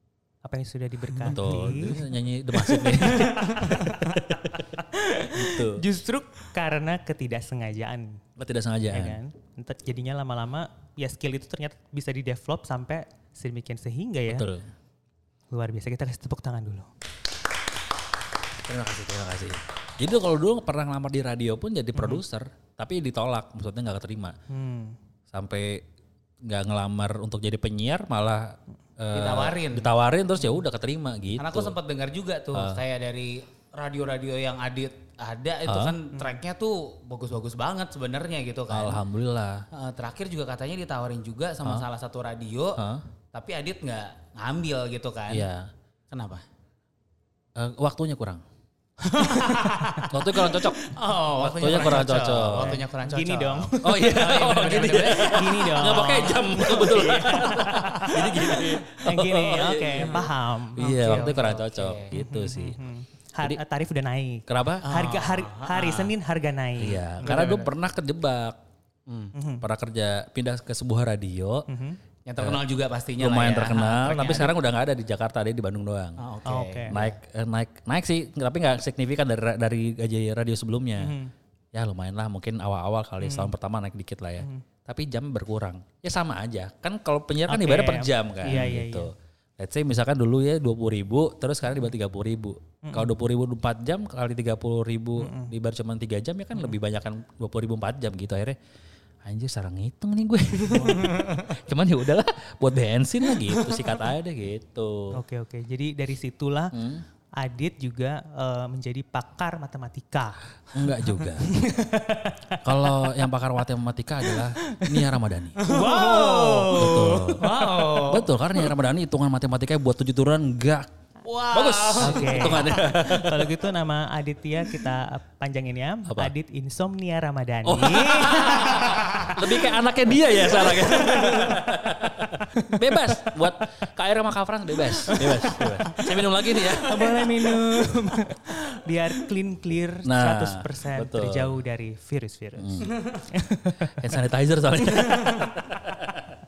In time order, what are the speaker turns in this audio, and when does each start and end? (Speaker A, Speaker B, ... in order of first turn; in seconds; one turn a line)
Speaker A: 0.4-8.2
Speaker B: 1.2-4.8
Speaker B: 5.3-5.8
Speaker B: 8.4-9.2
Speaker A: 8.9-14.5
Speaker B: 14.3-14.7
Speaker A: 15.5-16.9
Speaker B: 18.6-24.4
Speaker A: 22.0-22.2
Speaker A: 24.5-25.0
Speaker B: 25.3-25.9
Speaker B: 26.4-31.8
Speaker C: 29.1-29.9
Speaker C: 31.4-39.0
Speaker B: 32.5-32.8
Speaker B: 35.7-36.0
Speaker B: 38.7-39.6
Speaker C: 39.7-42.8
Speaker B: 42.8-43.1
Speaker C: 43.3-45.5
Speaker B: 45.3-45.7
Speaker C: 46.1-46.4
Speaker B: 47.6-48.4
Speaker C: 49.0-50.1
Speaker A: 49.2-50.1
Speaker B: 50.0-52.8
Speaker C: 50.8-55.5
Speaker A: 52.6-61.6
Speaker B: 53.8-62.8
Speaker C: 56.8-58.1
Speaker C: 60.0-60.3
Speaker C: 60.8-62.2
Speaker A: 62.1-67.5
Speaker B: 64.5-64.9
Speaker C: 64.8-66.1
Speaker B: 66.8-68.6
Speaker C: 67.2-67.7
Speaker C: 69.1-69.3
Speaker A: 69.3-69.7
Speaker B: 69.6-71.7
Speaker A: 71.7-72.0
Speaker C: 72.3-74.5
Speaker B: 73.2-76.2
Speaker C: 76.2-77.2
Speaker A: 76.5-77.0
Speaker B: 76.9-81.2
Speaker A: 81.0-81.3
Speaker B: 81.7-98.6
Speaker A: 83.2-83.5
Speaker A: 87.5-89.1
Speaker A: 92.8-93.1
Speaker A: 95.2-95.5
Speaker B: 99.2-105.2
Speaker A: 100.7-101.1
Speaker A: 105.1-106.8
Speaker B: 106.7-107.0
Speaker A: 107.4-110.4
Speaker B: 110.7-111.5
Speaker A: 111.4-113.0
Speaker B: 112.6-115.6
Speaker A: 114.4-115.0
Speaker A: 115.6-117.6
Speaker C: 115.6-118.3
Speaker B: 116.7-120.9
Speaker C: 121.2-122.7
Speaker B: 121.5-123.5
Speaker A: 122.0-129.4
Speaker B: 126.1-126.3
Speaker B: 127.7-137.3
Speaker A: 131.1-131.5
Speaker A: 132.5-133.1
Speaker A: 135.0-136.1
Speaker A: 136.6-144.0
Speaker B: 140.1-141.6
Speaker B: 142.6-143.0
Speaker B: 143.8-146.3
Speaker A: 144.9-145.5